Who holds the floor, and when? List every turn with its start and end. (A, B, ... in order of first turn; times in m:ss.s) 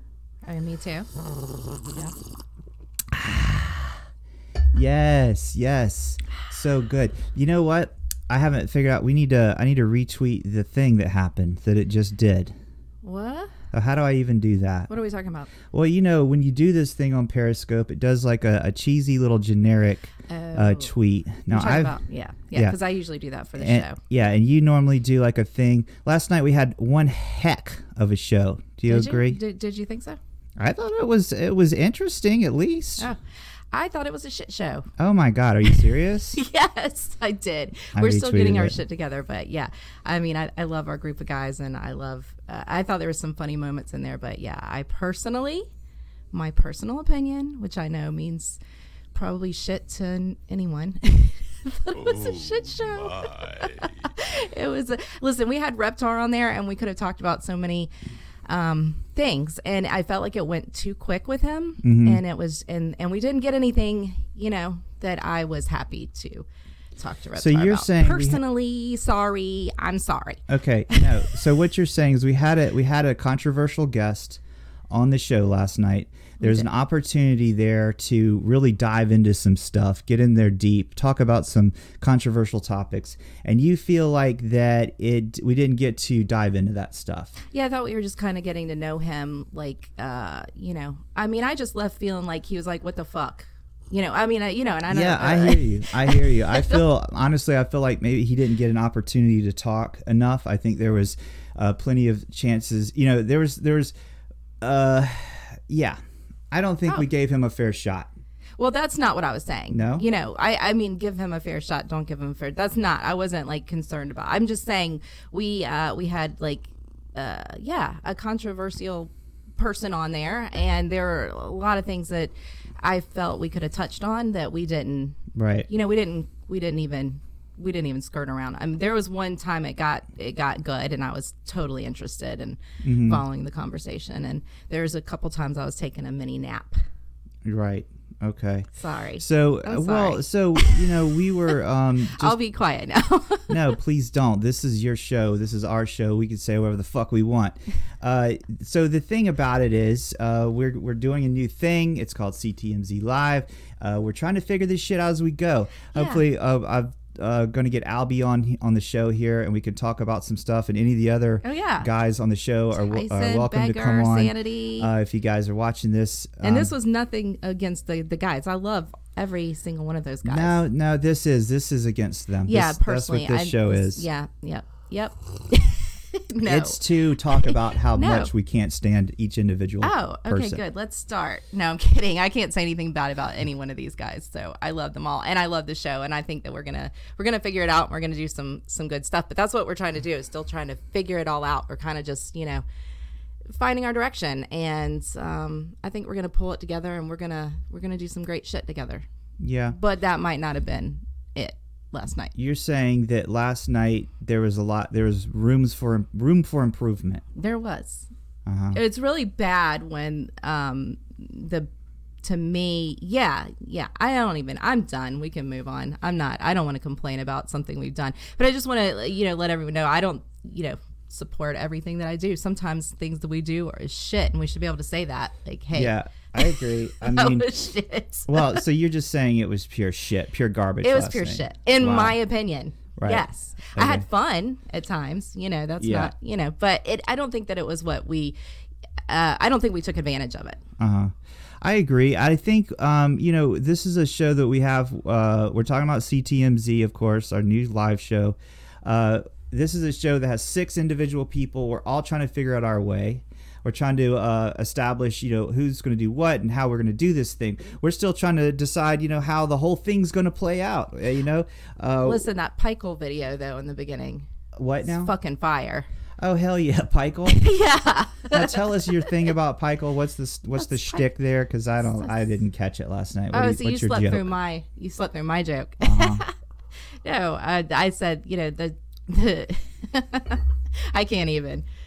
0:00.4-0:01.1 A
0:03.1-0:04.0 B
0:04.7-0:12.5 B
0:13.0-0:13.5 A
0:13.7-0:14.9 B
0:14.9-0:15.5 A
0:15.7-0:21.9 B
0:20.3-0:20.9 A
0:21.5-0:24.0 A
0:23.6-0:29.4 B
0:28.9-0:30.2 A
0:30.6-0:33.1 B
0:33.7-0:34.9 A
0:35.0-0:36.4 B
0:36.4-0:45.6 A
0:37.9-0:38.8 B
0:46.3-0:48.6 A
0:49.1-0:57.9 A
0:58.5-1:10.4 A
1:01.8-1:02.2 B
1:07.4-1:08.4 B
1:10.5-1:14.4 B
1:14.9-1:27.3 B
1:16.4-1:16.7 A
1:27.5-1:36.8 A
1:34.9-1:43.9 B
1:44.6-1:46.0 B
1:46.5-1:48.1 B
1:48.6-2:16.8 A
1:49.7-1:50.0 B
2:05.3-2:05.7 B
2:12.8-2:13.2 B
2:17.4-2:22.4 B
2:18.8-2:20.8 A
2:22.2-2:23.6 A
2:23.5-2:46.7 B
2:35.9-2:36.2 A
2:41.4-2:41.9 A
2:42.7-2:44.9 A
2:46.4-2:50.6 A
2:50.2-2:54.0 B
2:52.5-2:56.8 A
2:56.4-3:00.6 B
2:57.4-2:58.3 A
2:59.8-3:12.6 A
3:13.5-3:19.0 A
3:19.4-3:19.8 B
3:19.7-3:22.3 A
3:22.3-3:27.2 B
3:27.3-3:28.1 A
3:28.4-3:28.8 B
3:28.7-3:31.7 A
3:32.2-3:48.6 A
3:45.7-3:47.5 B
3:48.3-3:52.2 B
3:50.8-3:58.4 A
3:53.0-3:54.0 B
3:55.8-3:56.1 B
3:59.1-4:00.6 A
4:00.8-4:22.2 B
4:22.0-4:24.3 A
4:24.6-4:25.1 B
4:24.8-4:25.8 A
4:26.2-4:27.4 B
4:27.3-4:29.0 A
4:28.3-4:34.2 B
4:30.6-4:31.0 A
4:33.3-4:36.3 A
4:35.8-4:36.2 B
4:37.0-4:41.6 A